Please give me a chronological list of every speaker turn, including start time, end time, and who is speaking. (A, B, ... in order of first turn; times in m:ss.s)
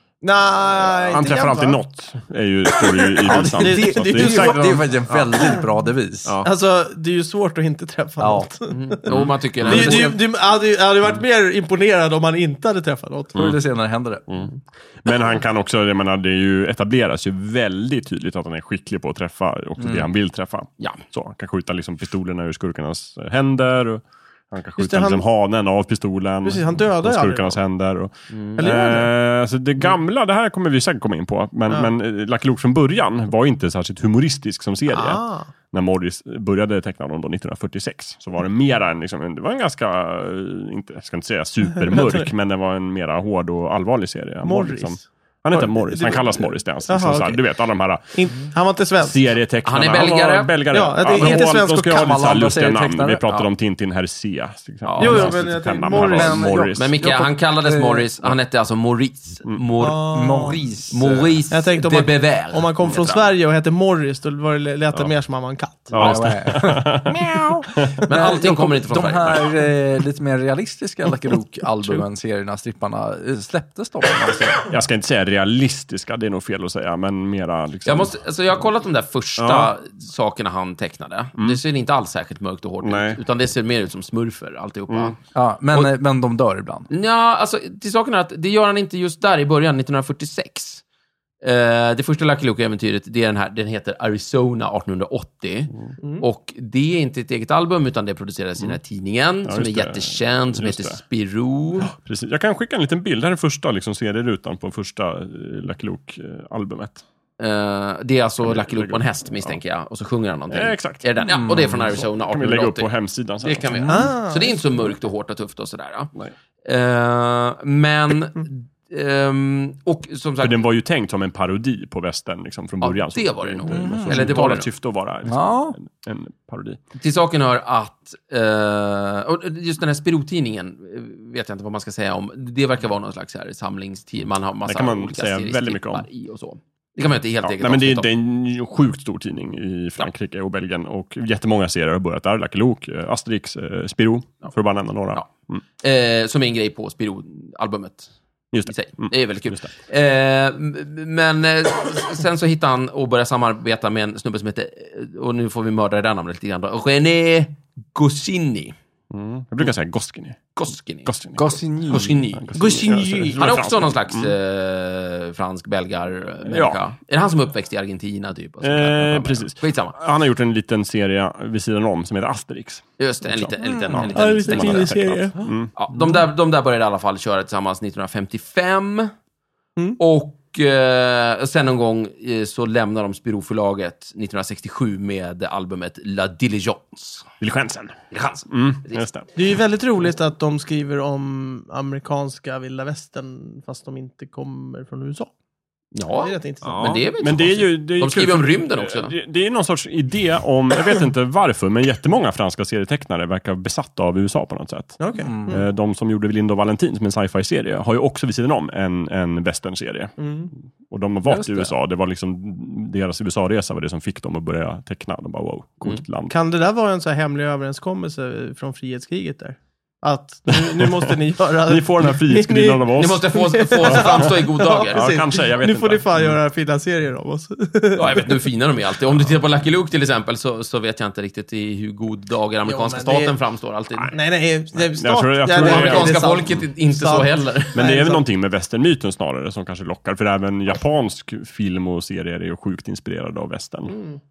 0:00.2-0:01.8 A
0:01.1-0:05.5 B
0:03.0-0:04.8 A
0:03.3-0:06.3 C
0:06.4-0:13.4 A
0:08.2-0:08.5 C
0:08.7-0:10.2 D
0:09.1-0:10.1 B
0:13.3-0:14.2 C
0:14.3-0:48.2 B
0:19.8-0:20.1 C
0:24.8-0:25.2 A
0:26.4-0:27.6 A
0:28.3-0:28.7 D
0:28.6-0:29.1 A
0:34.9-0:35.5 A
0:44.4-0:47.4 A
0:48.1-0:49.2 A
0:49.0-0:56.9 B
0:49.6-0:50.6 D
0:50.7-0:52.2 A
0:51.1-0:51.4 D
0:51.7-0:53.2 C
0:54.8-0:55.4 D
0:55.0-0:56.4 A
0:55.9-0:58.1 C
0:56.7-1:00.0 D
0:59.8-1:00.6 A
1:00.1-1:01.4 C
1:00.9-1:03.3 D
1:01.5-1:06.1 A
1:05.9-1:08.0 B
1:05.9-1:14.6 C
1:08.1-1:09.6 D
1:14.6-1:18.2 B
1:17.8-1:25.2 D
1:19.4-1:19.7 B
1:22.8-1:23.2 B
1:24.9-1:25.2 B
1:25.3-1:26.9 C
1:26.9-1:30.8 D
1:31.4-1:41.9 D
1:39.5-1:41.0 B
1:41.8-1:47.0 B
1:47.4-1:56.1 D
1:48.4-1:49.6 B
1:50.5-1:53.7 B
1:51.3-1:51.7 C
1:53.7-1:54.1 C
1:53.9-1:54.6 A
1:56.6-2:00.6 D
2:00.4-2:06.8 B
2:02.8-2:04.7 D
2:03.7-2:04.4 C
2:05.3-2:05.8 C
2:07.0-2:18.1 D
2:14.7-2:16.1 B
2:17.4-2:25.6 B
2:25.8-2:28.1 D
2:28.5-2:29.7 B
2:28.7-2:38.8 D
2:39.1-2:40.4 B
2:40.5-2:41.1 D
2:41.1-2:44.3 B
2:41.4-2:42.3 C
2:41.9-2:42.6 D
2:42.5-2:43.4 A
2:43.4-2:50.0 D
2:46.5-2:46.8 B
2:48.6-2:55.7 B
2:53.0-2:55.0 D
2:53.6-2:54.1 C
2:54.2-2:55.5 A
2:55.8-2:59.1 D
3:00.0-3:07.3 D
3:07.4-3:09.3 B
3:08.1-3:09.0 D
3:09.3-3:15.3 A
3:15.9-3:19.1 D
3:16.2-3:17.0 A
3:16.6-3:30.1 B
3:25.0-3:25.6 A
3:25.2-3:25.6 C
3:30.2-3:30.5 A
3:30.9-3:36.3 B
3:31.3-3:31.7 C
3:36.3-3:48.5 A
3:40.5-3:43.3 B
3:43.0-3:45.1 D
3:43.8-3:44.2 B
3:44.9-3:46.4 B
3:48.0-3:54.2 D
3:52.7-3:53.3 A
3:54.1-3:58.2 A
3:54.8-3:56.3 B
3:55.6-3:57.9 D
3:57.7-4:04.0 B
4:03.9-4:04.2 A